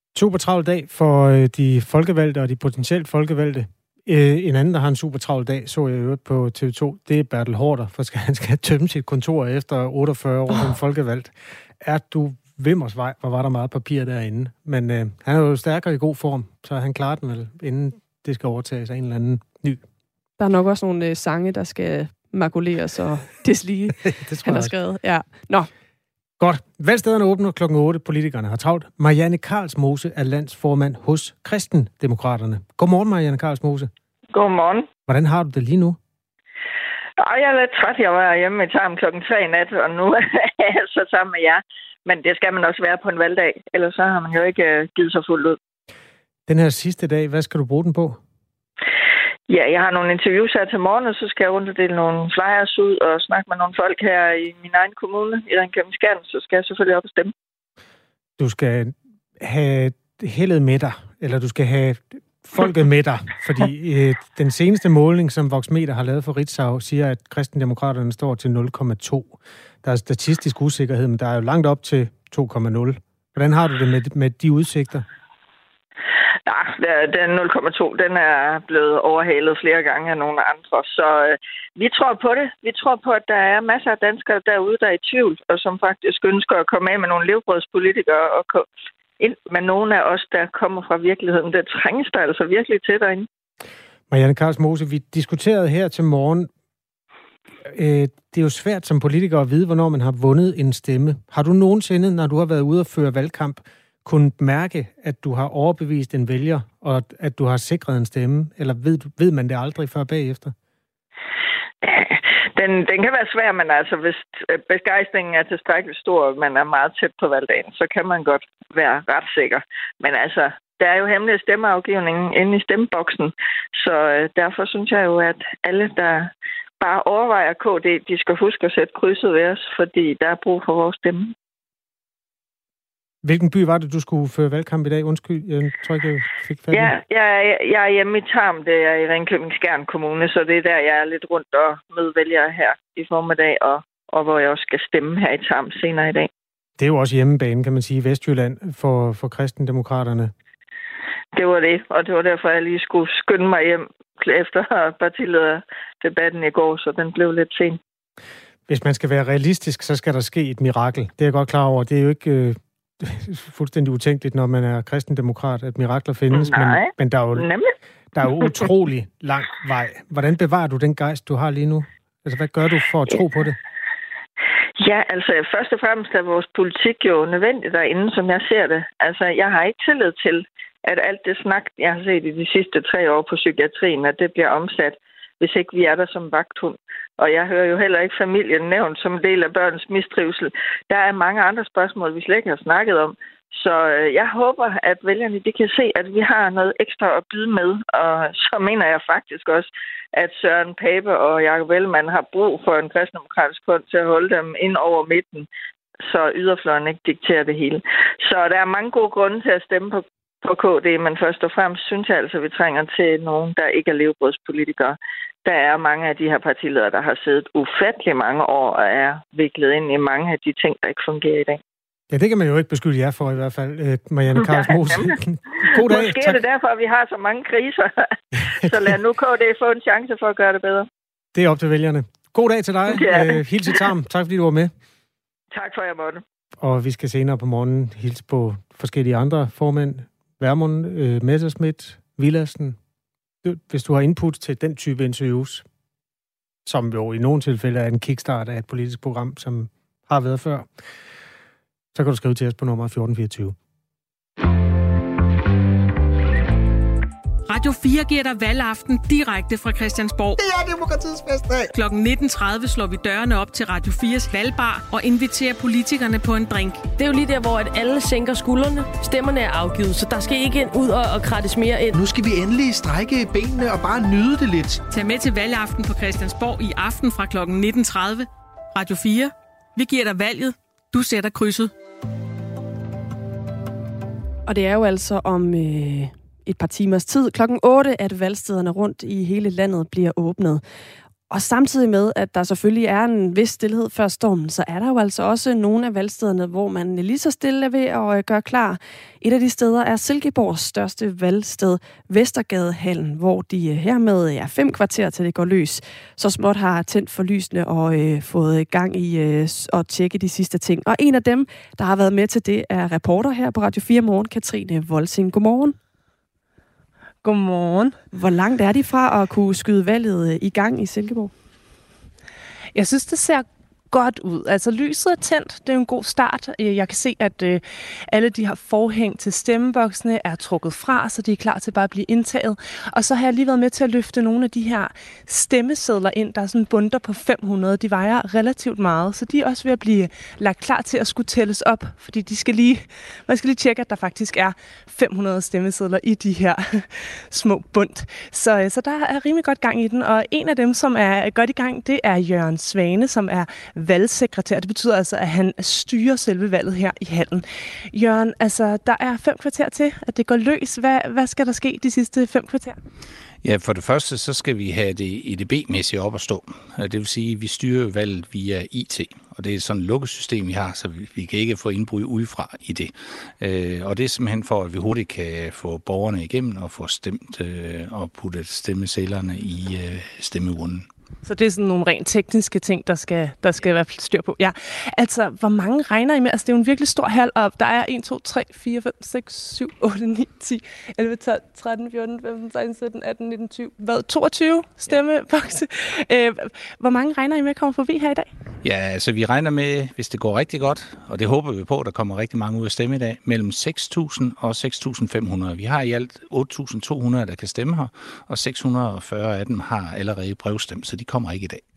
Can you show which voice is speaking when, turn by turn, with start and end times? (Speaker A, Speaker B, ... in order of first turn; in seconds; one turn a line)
Speaker A: 0.1-19.8
Speaker B: 20.4-25.7
Speaker A: 24.1-24.7
Speaker A: 26.4-33.9
Speaker C: 34.3-34.9
Speaker A: 35.1-36.0
Speaker C: 37.2-45.6
Speaker A: 46.5-48.2
Speaker C: 49.5-57.3
Speaker A: 58.4-75.0
Speaker C: 76.5-88.7
Speaker C: 89.2-93.3
Speaker A: 94.1-96.5
Speaker A: 97.7-110.5
Speaker C: 111.8-131.3
Speaker A: 133.2-137.0
Speaker C: 136.7-146.3
Speaker A: 146.8-150.3
Speaker C: 151.3-157.8
Speaker A: 158.7-167.5
Speaker C: 166.3-167.7
Speaker A: 168.1-173.6
Speaker C: 174.8-205.5
Speaker C: 206.1-221.6
Speaker A: 222.1-226.4
Speaker C: 224.4-225.1
Speaker C: 225.7-230.9
Speaker A: 228.6-229.0
Speaker A: 231.3-234.7
Speaker C: 232.9-233.9
Speaker C: 235.5-236.2
Speaker A: 236.6-242.8
Speaker A: 243.4-245.7
Speaker A: 246.7-250.7
Speaker A: 251.9-253.6
Speaker D: 257.5-260.4
Speaker E: 260.4-261.8
Speaker D: 261.8-266.8
Speaker F: 267.0-272.0
Speaker E: 271.9-274.8
Speaker D: 274.9-281.7
Speaker B: 284.5-290.6
Speaker B: 291.3-315.8
Speaker G: 317.2-318.0
Speaker B: 318.1-321.3
Speaker G: 322.8-362.8
Speaker H: 363.4-380.9
Speaker G: 381.2-398.3
Speaker H: 398.6-411.6